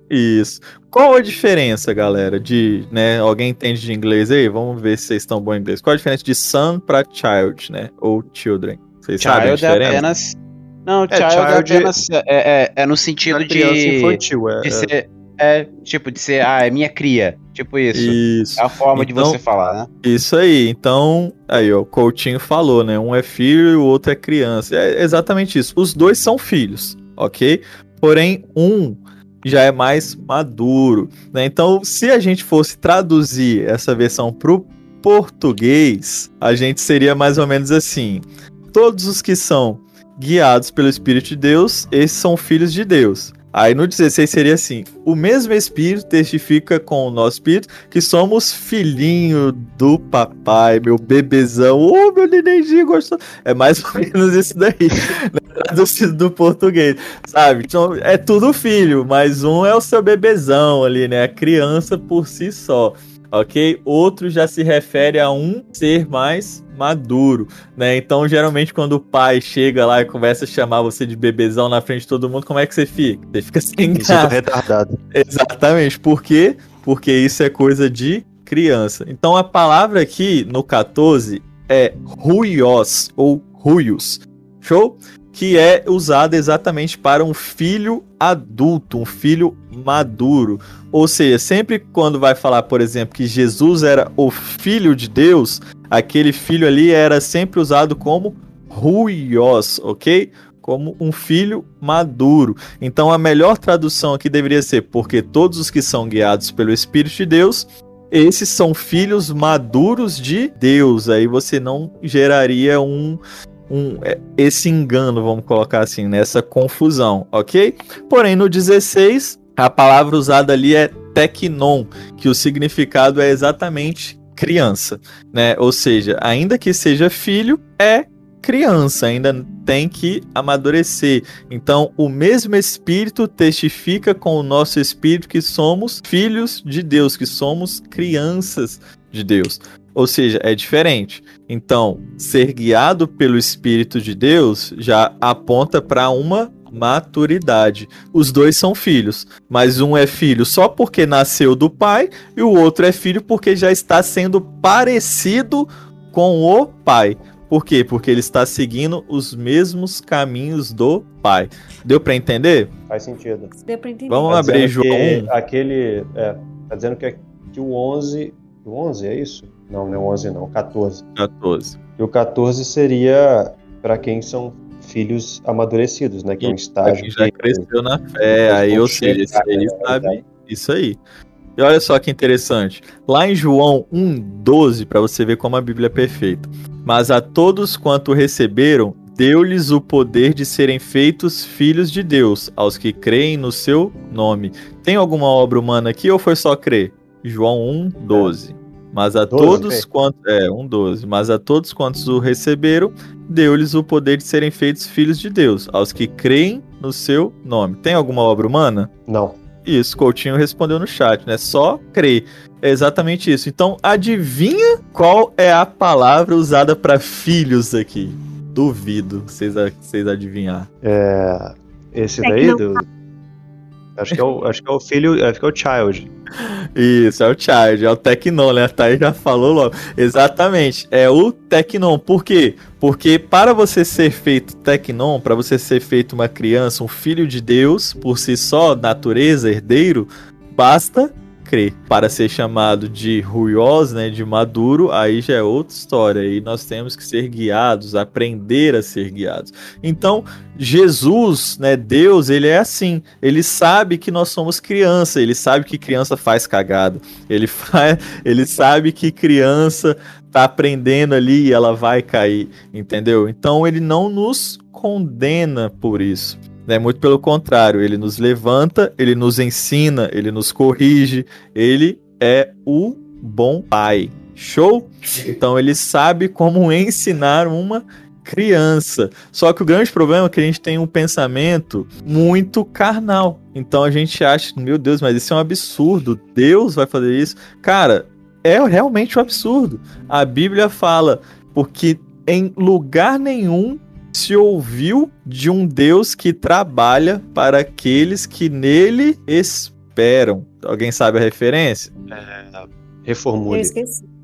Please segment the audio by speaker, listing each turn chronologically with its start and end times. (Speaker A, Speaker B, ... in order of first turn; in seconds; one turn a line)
Speaker A: 0.1-10.1
Speaker B: 9.2-19.9
Speaker C: 11.1-11.9
Speaker C: 13.3-14.9
Speaker A: 17.9-19.4
Speaker A: 20.0-74.5
Speaker C: 73.9-75.0
Speaker A: 75.1-162.7
Speaker C: 162.9-163.5
Speaker D: 163.6-164.4
Speaker A: 164.1-165.3
Speaker C: 164.3-171.0
Speaker A: 171.2-171.8
Speaker C: 172.0-177.7
Speaker A: 176.4-181.0
Speaker C: 178.5-180.2
Speaker A: 181.6-208.9
Speaker C: 199.3-199.8
Speaker C: 209.1-209.4
Speaker A: 209.6-220.7
Speaker C: 220.8-222.8
Speaker D: 222.2-222.8
Speaker C: 224.0-226.1
Speaker A: 226.8-301.9
Speaker C: 302.1-303.7
Speaker D: 303.5-304.0